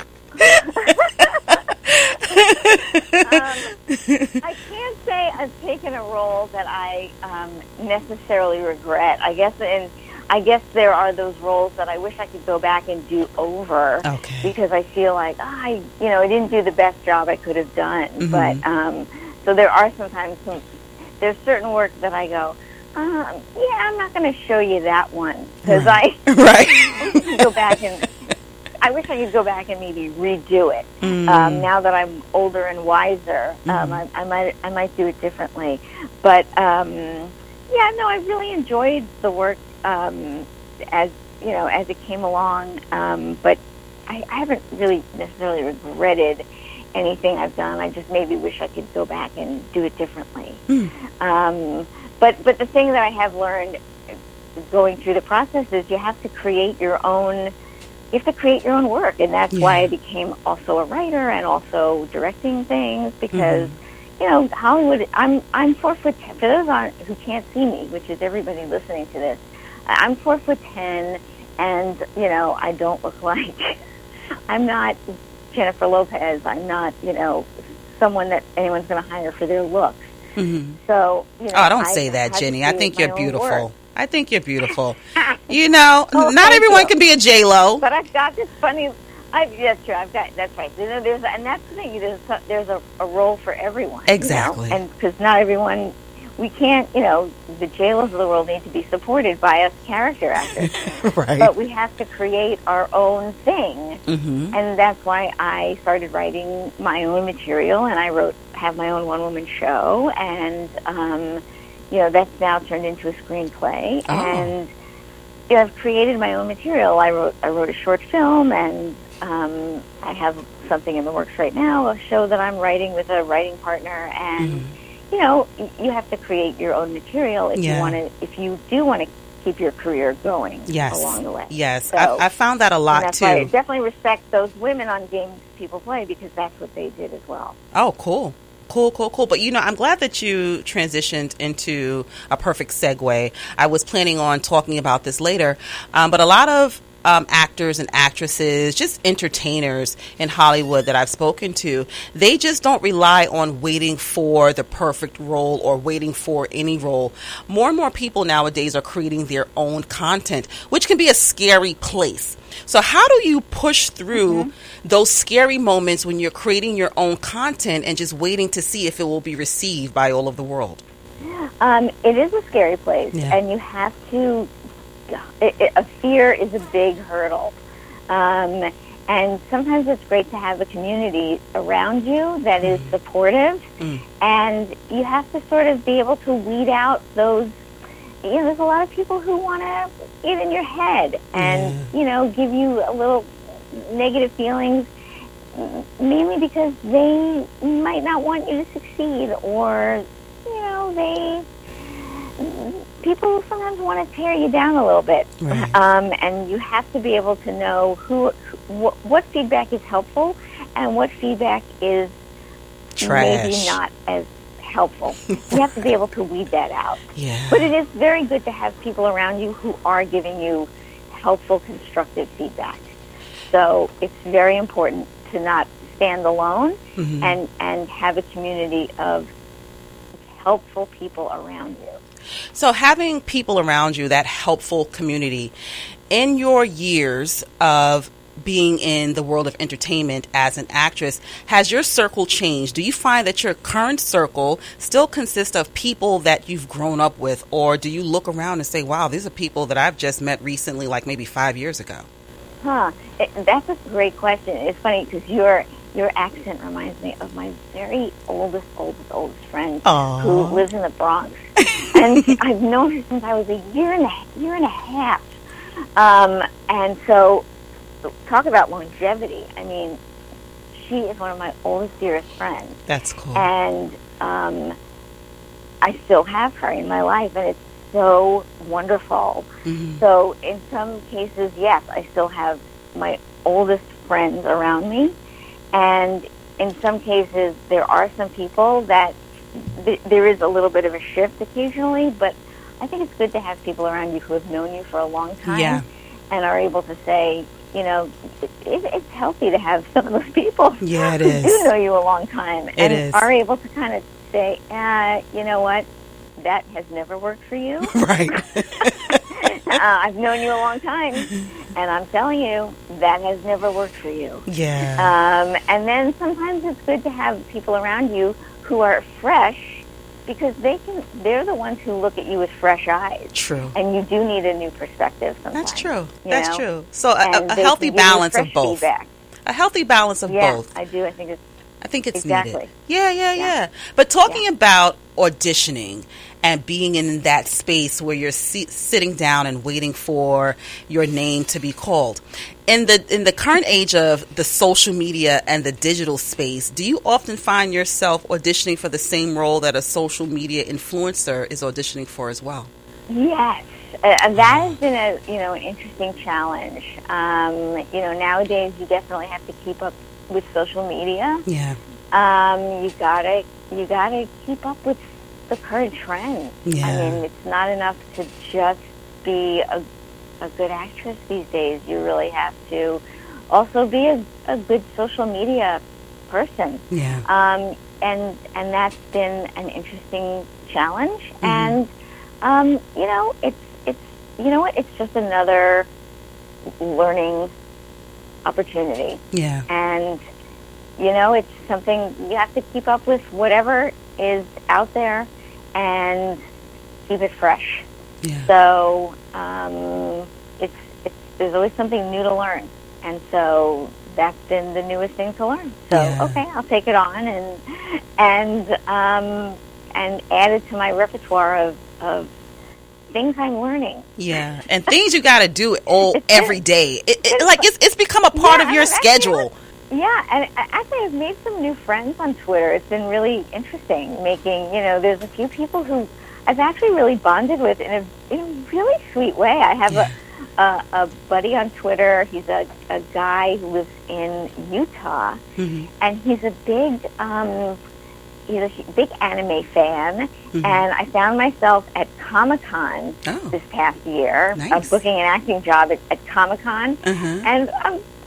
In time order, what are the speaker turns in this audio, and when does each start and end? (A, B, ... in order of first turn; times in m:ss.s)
0:00.3-0:01.7 A
0:01.2-0:04.4 B
0:02.3-0:03.8 A
0:04.4-0:20.6 A
0:14.0-0:14.5 B
0:18.2-0:18.6 B
0:21.2-0:26.2 A
0:25.6-0:27.8 B
0:27.0-0:28.1 A
0:28.8-0:50.6 A
0:31.0-0:31.7 B
0:33.6-0:34.0 B
0:51.2-0:54.1 A
0:54.7-0:57.5 A
0:58.1-1:13.8 A
0:59.5-0:59.9 B
1:03.3-1:03.7 B
1:14.5-1:15.0 A
1:15.5-1:20.1 A
1:20.4-1:20.8 B
1:20.8-1:23.6 A
1:21.5-1:25.0 B
1:25.2-1:25.6 A
1:25.5-1:27.8 B
1:26.1-1:26.9 A
1:27.8-1:54.7 A
1:34.1-1:34.8 B
1:40.7-1:41.5 B
1:44.1-1:44.5 B
1:54.1-1:54.5 B
1:55.5-2:12.2 A
2:04.4-2:04.7 B
2:07.6-2:08.0 B
2:10.7-2:13.5 B
2:12.9-2:17.6 A
2:17.7-2:50.8 B
2:44.1-2:44.5 A
2:51.2-2:54.5 A
2:55.1-2:57.5 A
2:58.1-3:03.6 A
3:02.6-3:02.9 B
3:04.2-3:07.5 A
3:08.2-3:14.9 A
3:11.3-3:11.9 B
3:15.5-3:21.4 A
3:22.4-3:32.1 A
3:25.4-3:25.8 B
3:33.0-3:33.8 B
3:33.0-3:37.0 A
3:37.1-3:37.7 B
3:37.5-3:42.8 A
3:43.5-3:49.3 A
3:47.0-3:47.4 B
3:50.3-3:52.0 A
3:52.5-3:55.5 B
3:56.1-4:12.1 B
4:12.6-4:25.4 A
4:19.8-4:20.6 B
4:21.6-4:22.3 B
4:26.0-4:27.4 A
4:28.0-4:30.0 A
4:30.7-4:32.8 A
4:32.9-4:33.5 B
4:33.3-4:34.7 A
4:35.8-4:39.4 A
4:39.6-4:40.0 B
4:40.0-4:45.1 A
4:45.7-5:05.8 A
4:55.4-4:55.8 B
5:00.8-5:01.7 B
5:02.8-5:03.3 B
5:06.4-5:14.4 A
5:07.9-5:09.2 B
5:14.5-5:15.1 B
5:15.0-5:26.6 A
5:23.3-5:23.8 B
5:25.5-5:28.8 B
5:27.2-5:29.1 A
5:29.4-5:30.7 B
5:30.3-5:31.4 A
5:31.8-5:52.7 B
5:32.1-5:32.7 A
5:53.1-6:01.4 A
5:54.4-5:54.7 B
6:01.4-6:01.8 B
6:02.1-6:09.8 A
6:06.6-6:07.2 B
6:10.4-6:21.9 A
6:16.9-6:17.2 B
6:21.4-6:21.8 B
6:22.4-6:25.9 A
6:26.8-6:27.5 A
6:28.4-6:30.2 A
6:29.3-6:29.6 B
6:31.0-6:36.4 A
6:37.1-6:37.8 A
6:38.2-6:38.5 B
6:38.5-6:52.3 A
6:45.9-6:46.4 B
6:53.1-6:54.1 A
6:54.2-6:59.5 B
6:56.1-6:56.6 A
6:57.3-6:57.7 A
6:58.3-7:15.4 A
7:09.9-7:10.1 B
7:15.6-7:15.9 B
7:16.0-7:17.8 A
7:18.5-7:28.0 A
7:20.5-7:20.8 B
7:23.2-7:23.5 B
7:24.5-7:25.0 B
7:27.0-7:27.5 B